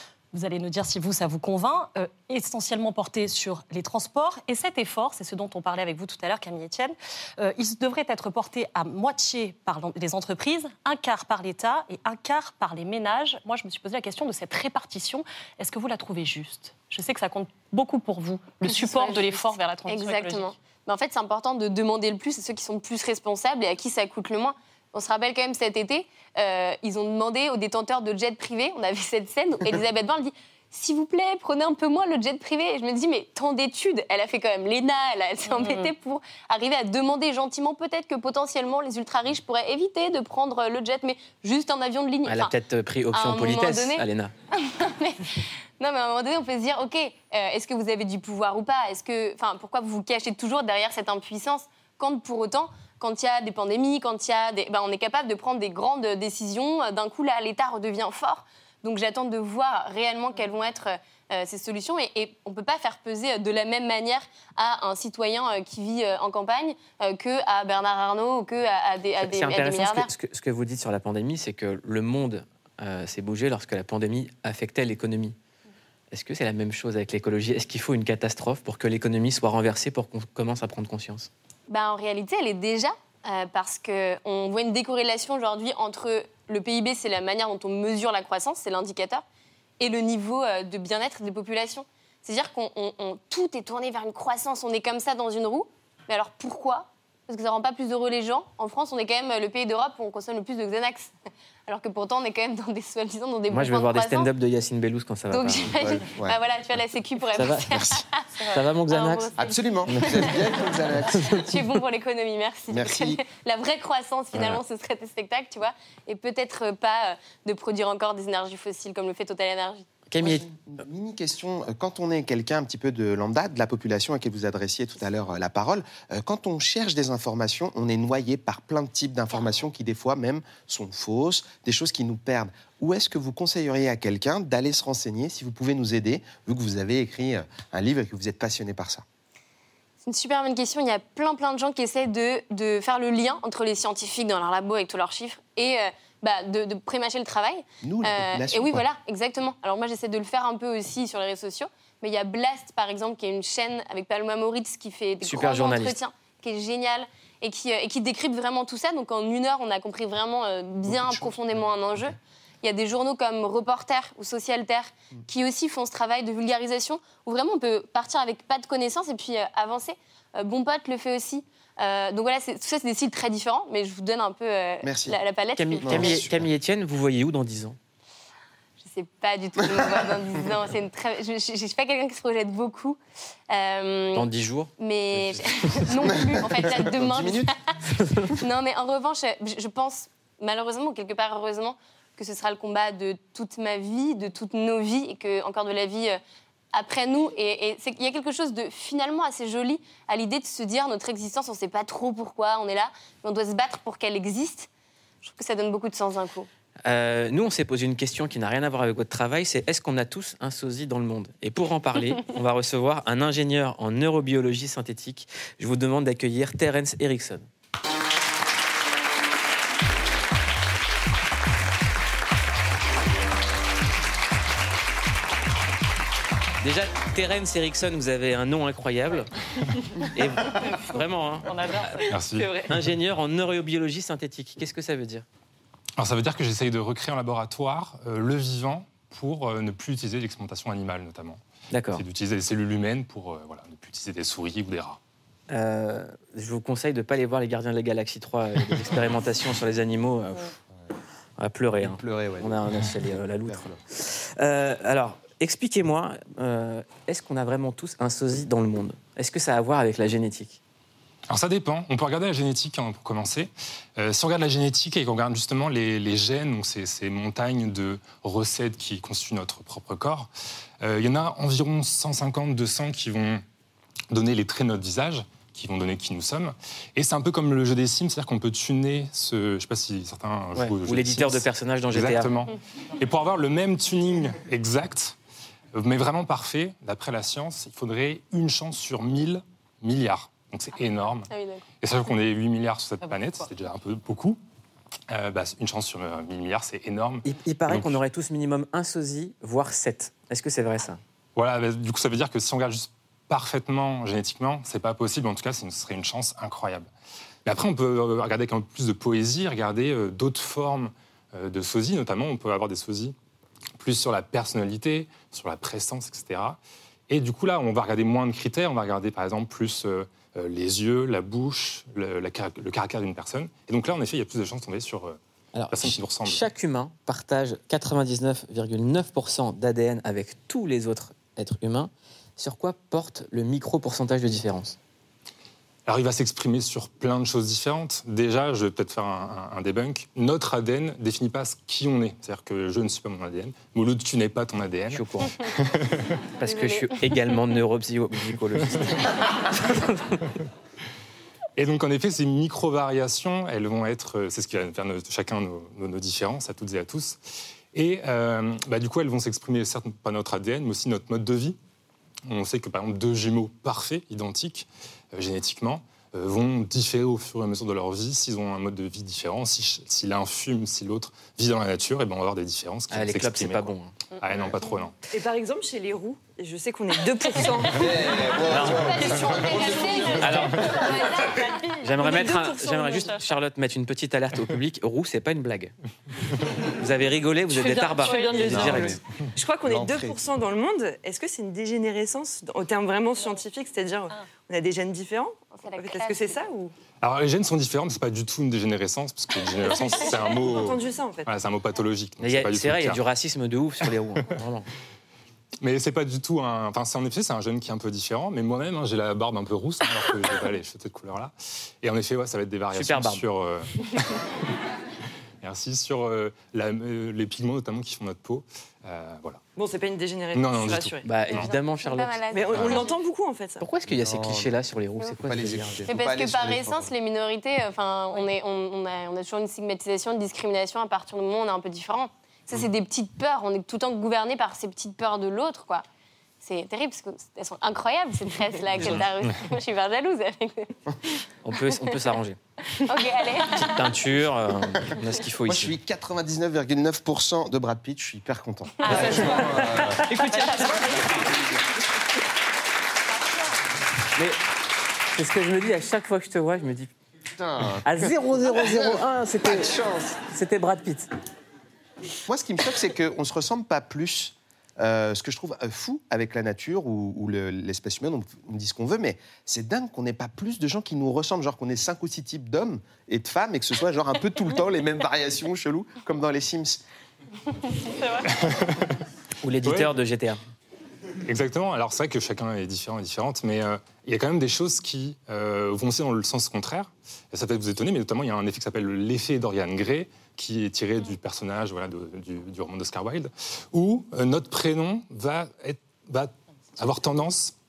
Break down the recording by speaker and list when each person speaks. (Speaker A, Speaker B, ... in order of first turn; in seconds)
Speaker A: 0.3-20.5, 35.5-35.9, 231.4-232.6, 293.0-293.4, 381.4-383.2, 387.9-388.7, 448.8-449.5, 450.2-451.0
Speaker B: 18.6-42.5, 43.1-70.1, 81.7-89.2, 89.8-101.1, 101.7-104.3, 105.3-110.8, 111.4-119.9, 140.0-176.2, 178.8-183.0, 183.5-187.5, 188.2-196.2, 196.7-204.7, 205.2-206.5, 291.3-291.6, 346.4-347.3, 378.5-381.6, 395.5-396.4, 421.4-422.9, 425.9-435.8, 436.4-441.8, 442.8-443.9
Speaker C: 42.2-44.3, 69.2-75.3, 76.1-81.3, 103.5-105.8, 107.3-108.0, 108.5-109.3, 109.9-110.4, 111.1-111.4, 114.3-114.6, 120.1-120.5, 155.2-155.9, 175.6-177.8, 184.1-184.7, 206.8-217.5, 226.6-229.3, 230.1-231.5, 232.7-235.2, 241.7-242.0, 245.5-250.5, 251.4-260.6, 280.5-282.3, 297.2-301.0, 325.5-334.8, 344.9-345.3, 346.4-350.3, 372.9-373.9, 378.5-379.0, 380.2-380.7, 381.8-385.7, 386.7-389.0, 402.2-404.7, 412.7-413.2, 421.0-422.8, 423.6-425.9, 441.4-442.4, 443.4-445.8, 448.9-450.7, 455.1-456.9, 457.8-461.1, 479.4-480.4
Speaker D: 105.8-106.4, 109.4-111.6, 112.7-113.2, 120.2-139.0, 147.8-148.8, 160.8-161.4, 174.8-175.2, 175.8-176.5, 185.9-187.5, 251.8-253.8, 377.7-381.0, 388.5-389.0, 389.6-390.2, 423.9-424.5, 425.2-426.9, 445.4-450.1, 450.8-451.4, 457.4-460.1, 462.2-476.8
Speaker E: 232.1-232.5, 236.0-241.4, 241.9-245.0, 261.3-270.3, 270.8-273.4, 274.1-285.1, 285.7-291.3, 291.8-294.4, 295.1-298.0, 301.4-306.9, 307.4-313.1, 313.8-325.2, 325.7-326.4, 335.9-346.1, 351.6-357.2, 357.7-361.6, 362.3-374.9, 397.0-403.0, 405.6-414.2, 415.4-419.4, 420.3-421.5, 422.5-422.8, 478.3-478.9, 479.6-479.9, 481.2-497.5
Speaker F: 232.3-232.7, 375.1-380.2, 387.5-396.7, 399.6-401.3, 419.6-421.2, 422.3-423.6